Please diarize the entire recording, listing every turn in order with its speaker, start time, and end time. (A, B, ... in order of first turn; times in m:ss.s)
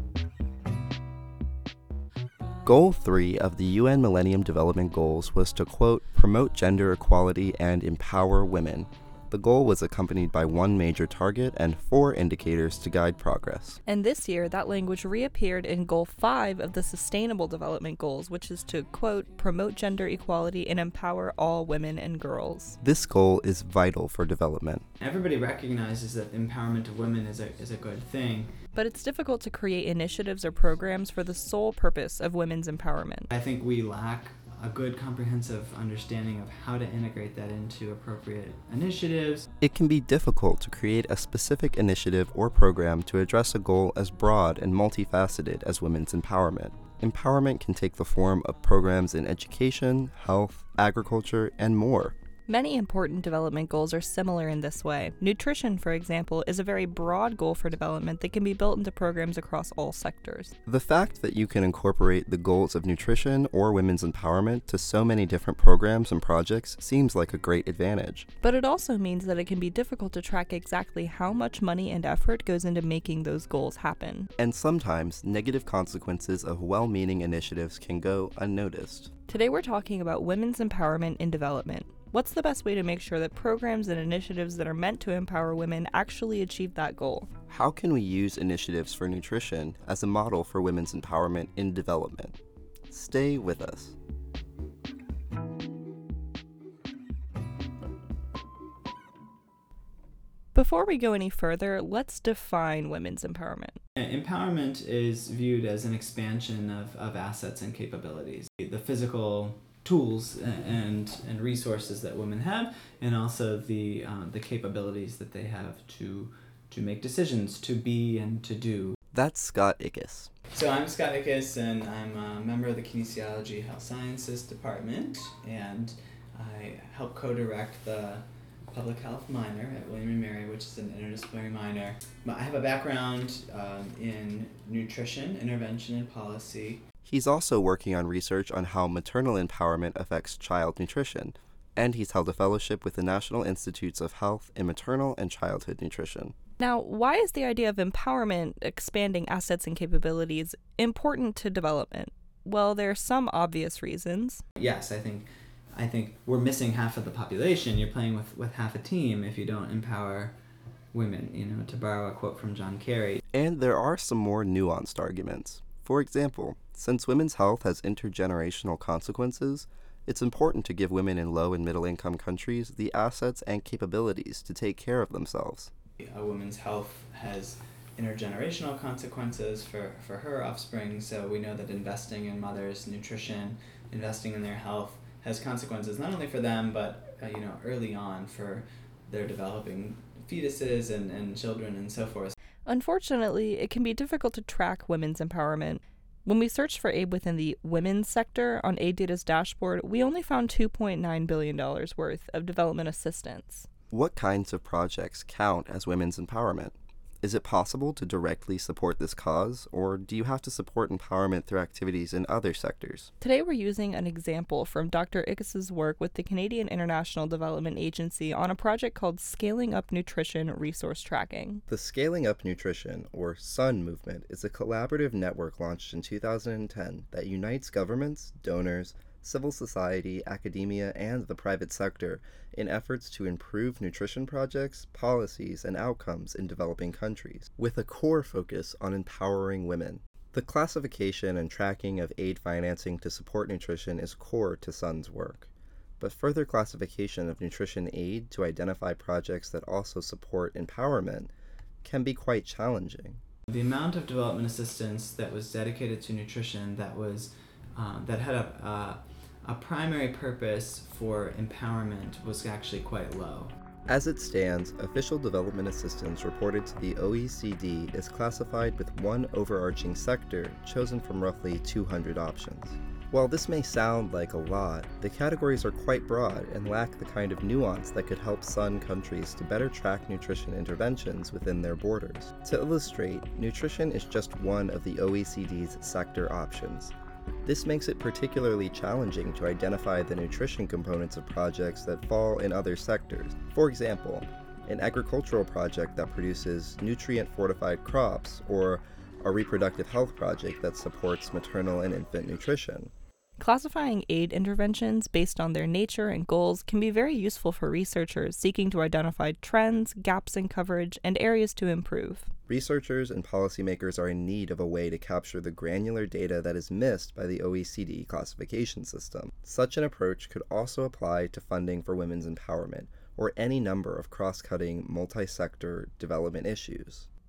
0:02.6-0:13.8 A
0:13.9-0:22.8 B
0:22.8-0:24.8 A
0:25.0-0:28.5 C
0:28.7-0:33.3 B
0:33.3-0:39.5 C
0:39.6-0:52.1 A
0:52.5-1:00.5 B
1:00.6-1:08.3 A
1:08.4-1:14.3 B
1:14.4-1:19.1 A
1:19.3-1:27.3 B
1:27.5-1:32.4 A
1:32.9-1:33.9 A
1:40.5-1:43.8 B
1:44.0-1:59.0 C
1:59.1-2:00.3 A
2:00.5-2:16.8 C
2:17.0-2:26.3 A
2:26.6-2:34.4 B
2:34.6-2:40.4 C
2:40.9-2:43.2 C
2:43.3-2:55.7 A
2:56.0-3:12.3 C
3:12.6-3:23.7 B
3:23.9-3:33.1 A
3:33.2-3:41.6 B
3:41.7-4:05.5 A
4:06.0-4:11.3 A
4:11.8-4:13.2 A
4:13.5-4:23.5 C
4:23.9-4:46.9 A
4:47.4-5:02.9 A
5:03.4-5:12.3 B
5:12.5-5:27.1 A